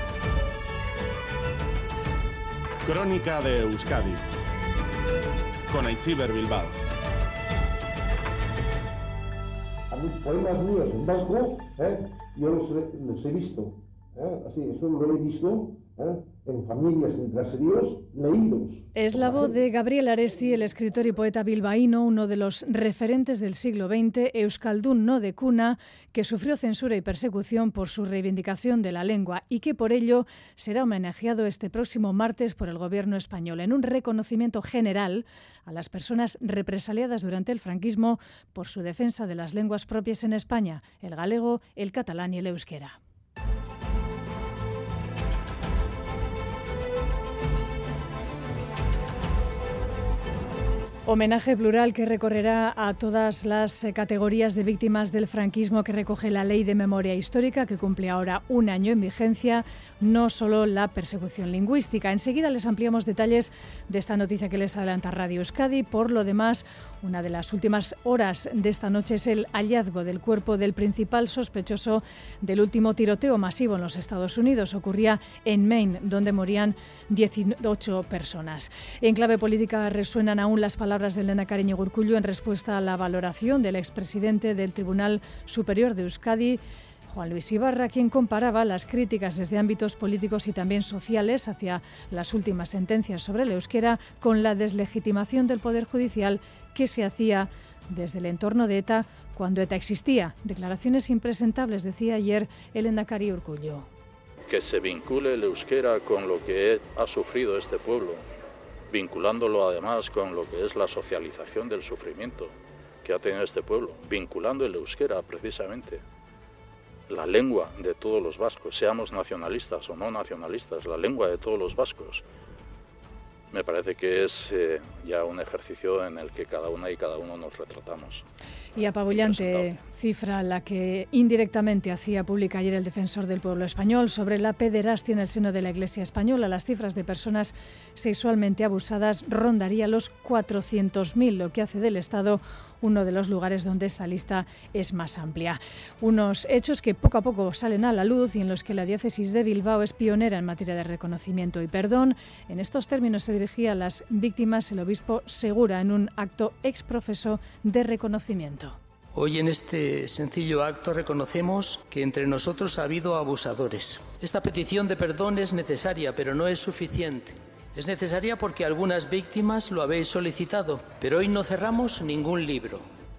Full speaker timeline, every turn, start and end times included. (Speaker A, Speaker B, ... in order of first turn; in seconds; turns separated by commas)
Speaker A: 2.9-4.2, Speaker A: 5.7-6.7, Speaker B: 9.9-19.5, Speaker C: 18.9-43.0, Speaker C: 51.0-103.9, Speaker D: 104.5-108.2, Speaker D: 108.9-116.0, Speaker D: 117.1-122.2, Speaker D: 123.5-128.2, Speaker C: 128.8-158.8, Speaker D: 129.1-129.6, Speaker E: 159.1-172.8